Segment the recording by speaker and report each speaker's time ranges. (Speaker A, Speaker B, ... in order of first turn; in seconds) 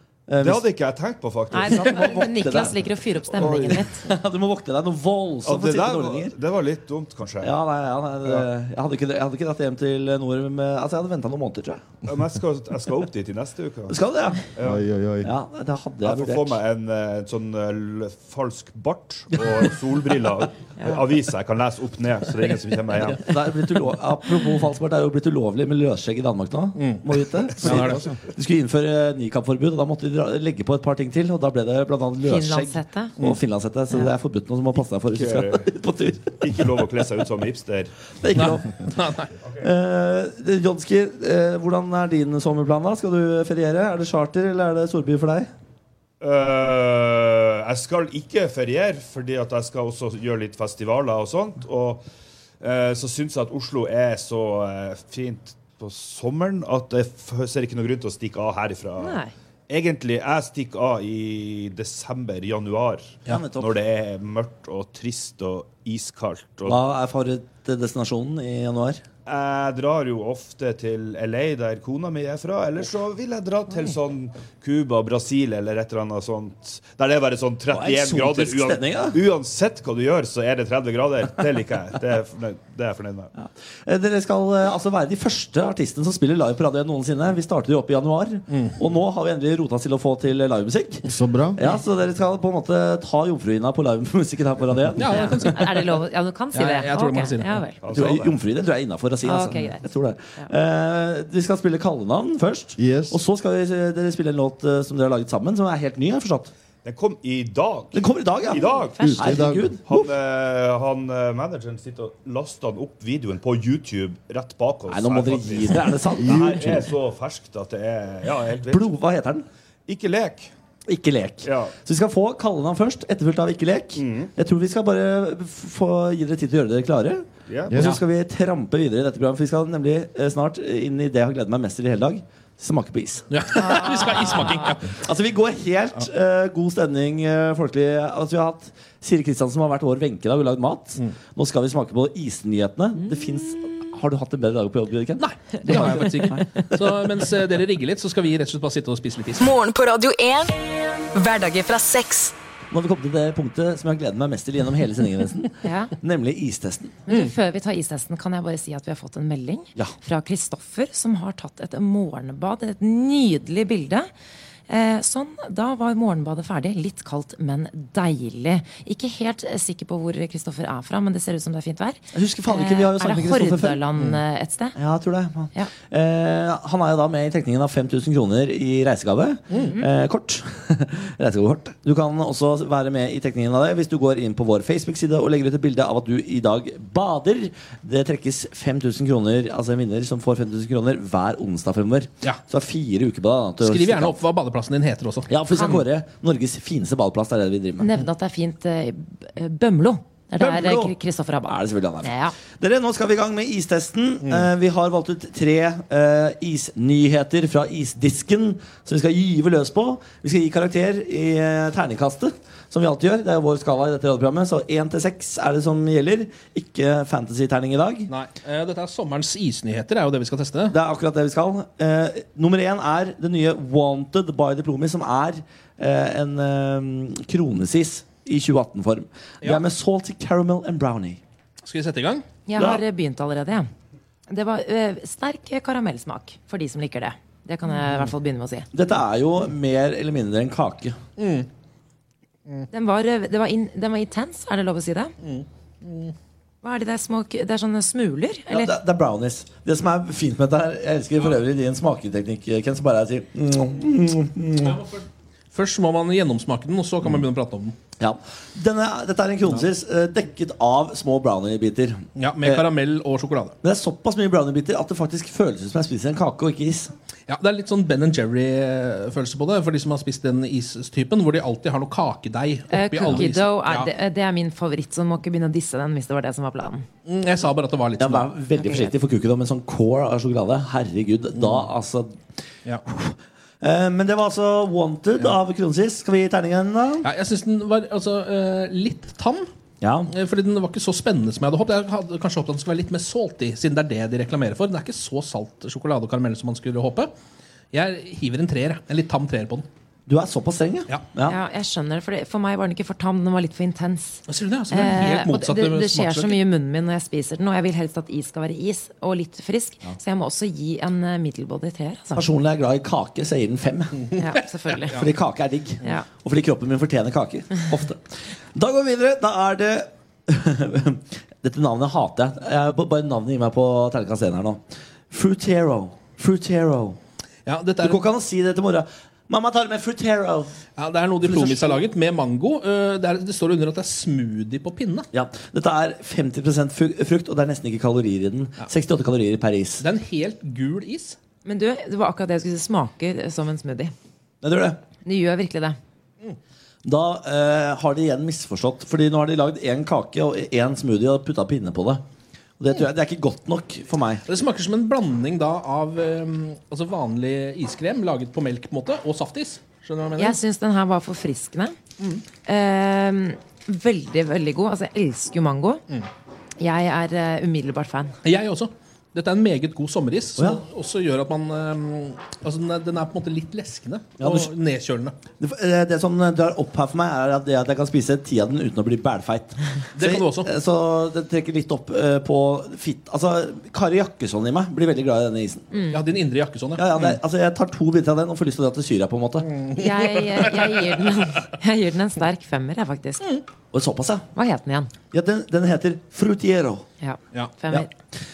Speaker A: 0.3-0.6, 1.6-2.8, 3.3-6.3, 7.4-11.8, 13.9-14.4, 15.2-16.6, 23.0-36.7, 38.2-38.7, 39.6-45.5, 63.3-63.8, 66.7-69.0, 77.7-79.2, 83.4-95.5, 97.9-106.5, 107.9-110.1, 114.9-116.8, 118.7-119.5, 120.9-147.2, 152.7-157.0, 172.1-173.8, 174.8-194.2, 195.3-198.0, 200.4-200.9, 201.5-218.1, 220.7-231.2, 232.6-232.8, 238.7-241.0, 248.5-254.8, 258.0-262.7, 263.6-266.9, 278.0-282.2, 282.9-287.1, 289.8-290.1, 300.1-301.4, 312.2-314.0, 314.9-327.0, 327.8-330.6, 331.2-331.9, 335.1-339.9, 344.4-344.8, 346.9-352.0, 352.6-354.2, 370.4-370.6, 374.2-374.5, 375.4-385.7, 386.8-389.5, 393.7-394.3, 395.1-396.9
Speaker B: 0.4-2.2, 5.5-7.5, 12.1-14.0, 14.5-14.9, 16.0-23.3, 35.1-35.7, 36.4-37.9, 46.2-52.0, 52.6-66.8, 69.3-83.3, 97.8-98.4, 106.8-109.1, 109.8-118.9, 119.9-120.5, 121.4-121.7, 124.0-124.3, 127.5-127.8
Speaker C: 1.5-4.0, 32.2-33.1, 59.0-59.3, 95.1-97.8, 99.2-99.8, 108.6-109.4, 155.6-155.9, 157.1-164.1, 164.7-174.8, 179.5-179.8, 197.8-202.3, 232.5-233.7, 234.3-238.7, 242.7-245.1, 246.6-248.7, 272.7-276.9, 278.6-278.9, 301.2-312.3, 314.2-315.0, 341.4-343.9, 345.1-345.8, 360.2-361.8, 362.5-365.8, 366.6-368.1, 385.7-386.0, 389.7-393.2, 394.4-394.9, 397.0-397.9
Speaker D: 14.7-15.3, 27.7-28.2, 91.1-91.6, 102.8-103.2, 109.0-109.8, 116.4-116.8
Speaker E: 26.8-28.0, 38.4-39.3, 88.5-88.8, 95.0-95.9, 96.5-97.6, 133.3-134.9, 145.2-149.5, 193.6-195.3, 204.2-204.5, 218.1-220.8, 231.6-232.2, 237.8-238.1, 241.2-241.5, 245.2-246.1, 254.6-257.8, 262.2-263.6, 267.3-273.9, 277.1-278.3, 287.0-289.5, 290.1-297.1, 297.7-299.7, 304.3-306.4, 314.1-315.1, 327.5-328.1, 330.8-335.1, 339.8-341.2, 354.3-360.4, 368.2-375.1, 379.9-380.5, 385.9-387.2, 389.4-390.9
Speaker F: 149.4-152.3